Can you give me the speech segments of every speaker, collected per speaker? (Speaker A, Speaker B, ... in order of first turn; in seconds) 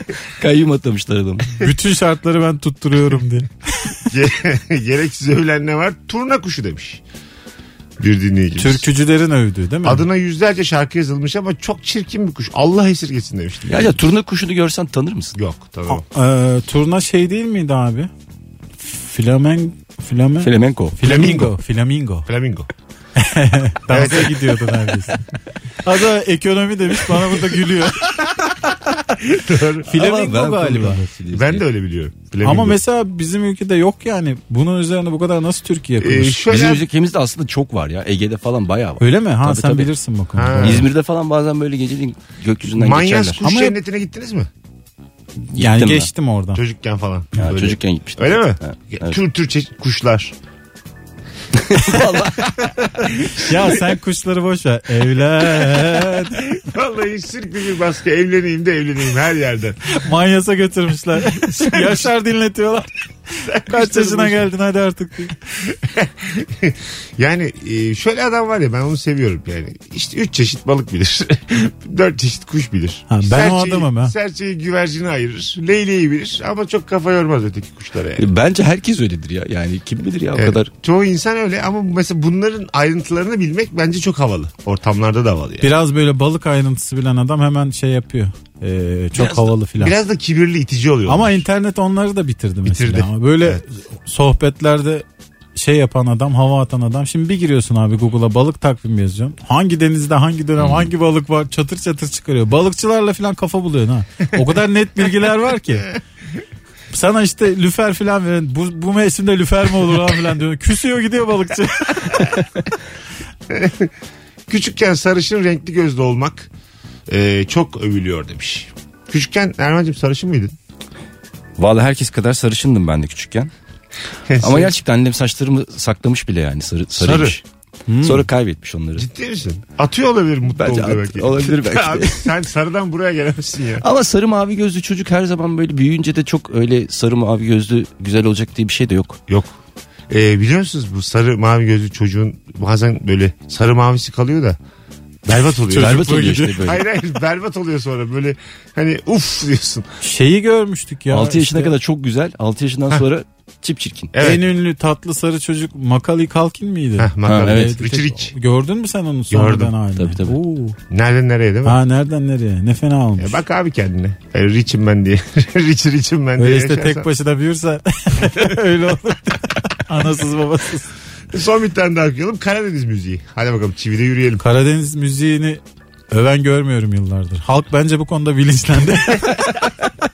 Speaker A: 0.3-1.6, 13.7-15.3, 20.4-21.0, 29.9-31.6, 36.5-39.9, 40.6-43.4, 45.5-46.1, 47.4-49.2, 51.6-52.5, 78.2-80.7, 100.6-100.9, 121.6-123.5, 124.4-127.4, 128.0-129.1, 130.5-132.3, 133.8-139.2, 145.7-146.8, 151.1-154.1, 157.2-157.8, 160.0-160.4
Speaker B: 1.6-4.1, 8.6-10.1, 15.9-18.1, 18.8-22.3, 23.1-25.2, 25.8-28.6, 29.9-31.0, 32.4-36.5, 39.0-40.9, 43.4-43.8, 45.4-46.6, 53.4-56.4, 59.9-65.3, 73.1-74.1, 85.6-90.0, 91.1-105.9, 106.9-112.6, 127.9-128.3, 145.7-146.8, 150.0-151.7, 154.2-160.8, 161.6-163.4, 166.4-170.9, 174.4-179.7
Speaker C: 4.1-7.0, 8.0-8.9, 9.8-14.0, 15.3-16.0, 21.0-21.5, 22.2-22.7, 23.9-24.8, 28.9-29.9, 31.3-32.8, 36.0-36.8, 40.3-40.9, 42.7-44.5, 46.5-50.3, 52.2-53.8, 55.5-59.9, 61.3-62.1, 63.5-64.5, 65.7-78.3, 80.3-85.7, 89.1-91.4, 92.6-93.6, 113.5-113.9, 114.5-116.5, 117.1-120.5, 124.3-124.8, 127.0-127.4, 128.9-133.8, 139.3-139.5, 140.1-144.6, 145.2-149.9, 154.1-154.4, 157.0-158.3, 159.3-159.8, 160.9-161.8, 163.2-167.1, 171.3-174.4